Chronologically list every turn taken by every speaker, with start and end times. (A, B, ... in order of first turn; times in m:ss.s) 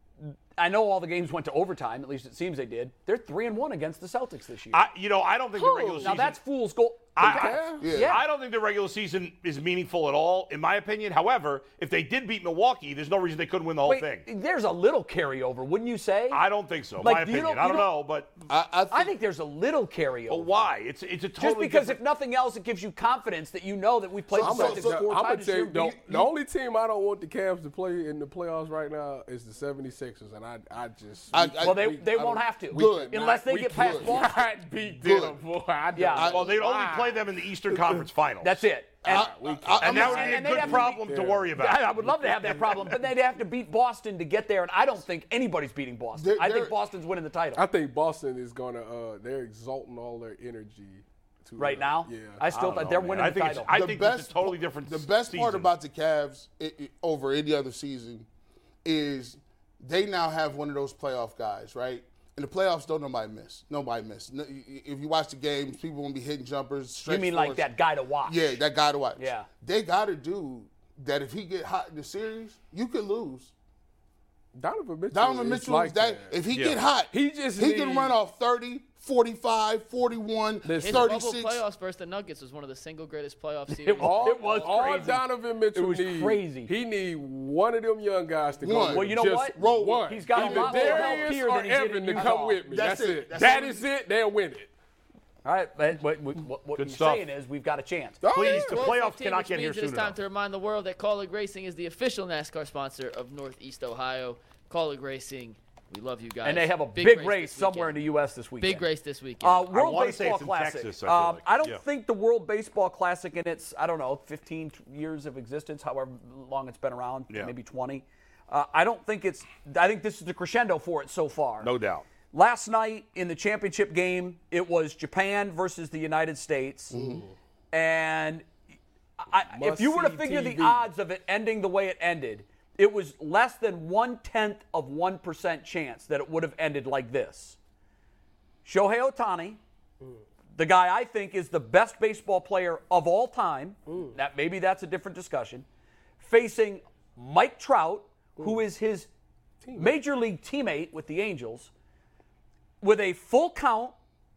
0:00.2-0:04.8 A
0:04.7-0:06.4 B
0:05.5-0:06.2 C
0:06.0-0:08.2 A
0:07.2-0:14.2 B
0:07.2-0:07.9 C
0:07.8-0:08.2 D
0:13.8-0:16.4 A
0:16.3-0:18.4 B
0:17.0-0:17.9 A
0:18.5-0:19.1 D
0:18.9-0:20.7 A
0:20.3-0:22.0 B
0:21.4-0:25.9 A
0:24.3-0:25.1 D
0:24.4-0:32.2 C
0:25.8-0:26.3 D
0:31.3-0:34.3 D
0:31.6-0:34.4 A
0:32.7-0:33.1 C
0:33.7-0:38.1 C
0:35.0-0:35.4 D
0:35.9-0:36.3 A
0:36.2-0:36.5 D
0:36.2-0:38.6 B
0:38.4-0:47.6 A
0:39.0-0:40.6 D
0:39.1-0:43.0 C
0:39.8-0:41.9 B
0:46.1-0:46.8 D
0:47.5-0:52.5 C
0:51.6-0:53.7 A
0:52.5-0:55.7 B
0:53.7-0:58.2 D
0:58.8-1:07.7 D
1:07.1-1:08.4 A
1:08.2-1:13.5 D
1:09.2-1:09.5 A
1:14.5-1:16.4 C
1:15.1-1:21.6 D
1:16.5-1:16.8 B
1:17.1-1:18.2 C
1:20.6-1:21.1 C
1:20.8-1:25.0 E
1:23.7-1:26.7 A
1:23.9-1:34.7 C
1:28.6-1:31.4 D
1:28.9-1:32.6 A
1:32.2-1:33.8 D
1:35.4-1:38.2 A
1:36.8-1:37.3 B
1:38.2-1:39.0 C
1:38.3-1:40.2 B
1:38.4-1:48.0 E
1:46.4-1:48.9 A
1:48.6-1:49.7 E
1:49.4-2:01.7 A
1:49.7-1:51.8 B
2:01.6-2:02.0 B
2:02.3-2:07.0 A
2:06.9-2:07.3 C
2:07.7-2:08.5 A
2:09.2-2:17.6 A
2:09.5-2:10.9 C
2:18.6-2:19.6 A
2:20.6-2:25.6 A
2:23.9-2:24.2 C
2:26.2-2:29.1 A
2:28.4-2:28.6 C
2:29.6-2:30.0 C
2:29.7-2:31.7 A
2:32.8-2:33.9 A